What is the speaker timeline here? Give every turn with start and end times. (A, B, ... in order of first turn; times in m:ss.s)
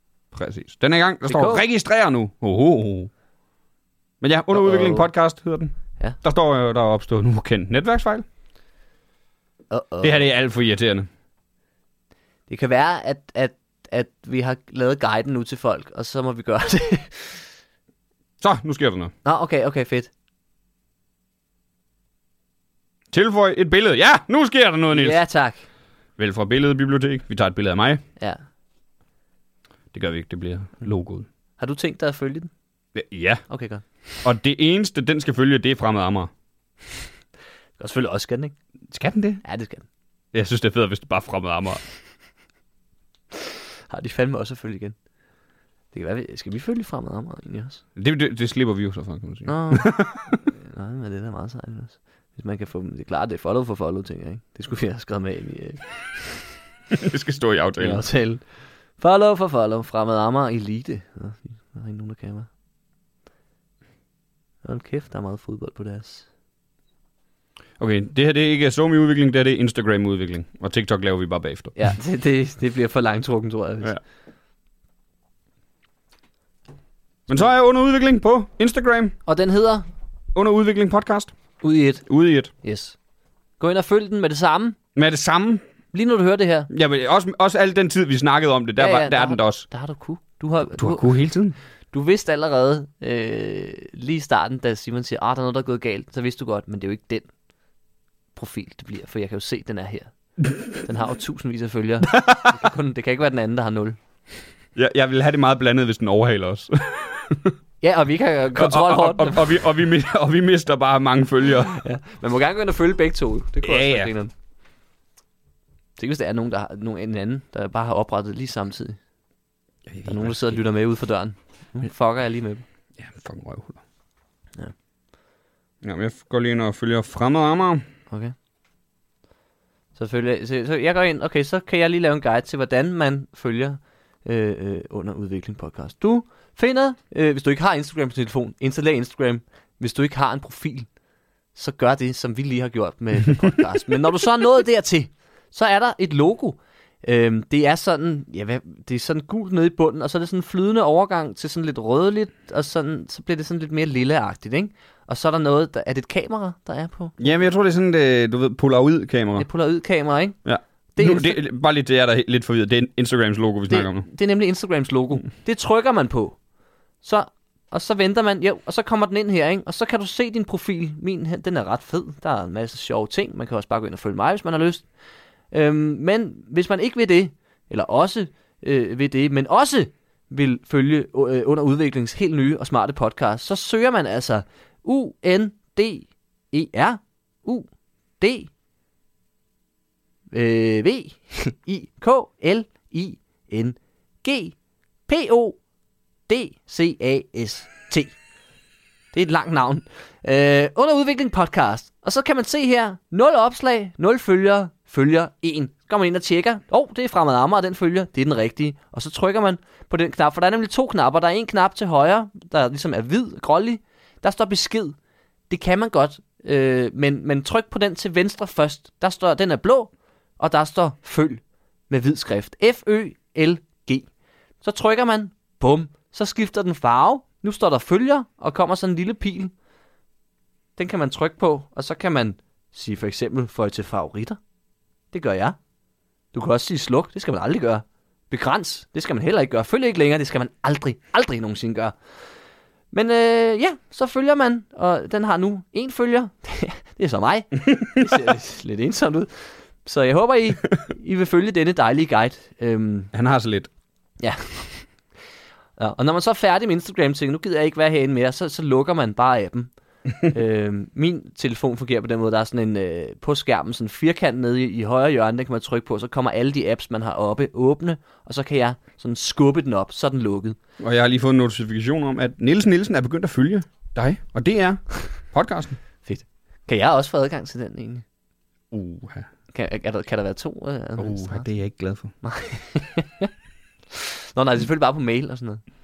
0:00.3-0:03.1 A
0:01.2-0:01.6 B
0:04.2-0:08.2 A
0:04.5-0:05.1 B
0:09.7-0:10.3 B
0:10.0-0:11.1 A
0:12.5-0:17.5 B
0:18.4-0:19.1 A
0:19.2-0:20.1 B
0:23.1-0:25.2 A
0:24.9-0:25.6 B
0:26.2-0:28.0 A
0:29.9-0:31.3 A
0:31.6-0:32.5 B
0:32.9-0:33.4 A
0:33.5-0:33.8 B
0:34.2-0:36.3 A
0:37.8-0:38.5 B
0:38.9-0:39.4 A
0:39.4-0:39.8 B
0:40.3-0:41.8 A
0:43.9-0:45.0 B
0:45.9-0:47.8 B
0:48.0-0:50.3 A
0:49.4-0:56.5 B
0:56.9-0:58.0 A
0:57.8-1:02.5 B
1:04.6-1:06.3 B
1:07.8-1:11.8 A
1:11.7-1:14.0 B
1:17.3-1:19.1 A
1:19.2-1:19.8 B
1:20.3-1:21.3 A
1:21.6-1:22.1 B
1:22.0-1:22.5 A
1:22.6-1:23.0 B
1:23.6-1:24.8 B
1:24.9-1:25.6 A
1:25.9-1:26.7 B
1:26.7-1:29.7 A
1:28.8-1:31.1 B
1:30.7-1:31.6 A
1:31.9-1:37.3 B
1:38.3-1:44.0 B
1:42.1-1:42.5 A
1:44.7-1:47.5 A
1:47.8-1:49.5 B
1:48.5-1:51.8 A
1:51.7-1:54.3 B
1:53.6-1:54.1 A
1:56.0-1:59.0 B
1:59.9-2:00.6 A
2:00.0-2:02.6 B
2:03.0-2:03.8 A
2:05.8-2:07.8 A
2:09.9-2:20.9 B
2:21.5-2:37.4 B
2:37.2-2:39.5 A
2:39.4-2:40.4 B
2:40.4-2:44.1 A
2:40.9-2:41.4 B
2:43.7-2:46.4 B
2:47.0-2:54.9 B
2:55.5-3:08.5 B
3:10.3-3:15.6 B
3:16.3-3:18.2 B
3:19.1-3:35.0 B
3:35.5-3:44.1 B
3:44.6-3:49.5 B
3:50.8-3:54.4 B
3:55.1-3:55.6 B
3:56.3-4:02.0 B
4:02.9-4:13.1 B
4:13.1-4:13.7 A
4:14.2-4:15.0 B
4:15.8-4:30.6 B
4:30.8-4:35.8 A
4:36.0-4:38.0 B
4:38.7-4:39.3 A
4:39.5-4:41.5 B
4:41.0-4:42.1 A
4:42.2-4:43.3 B
4:43.9-4:45.6 B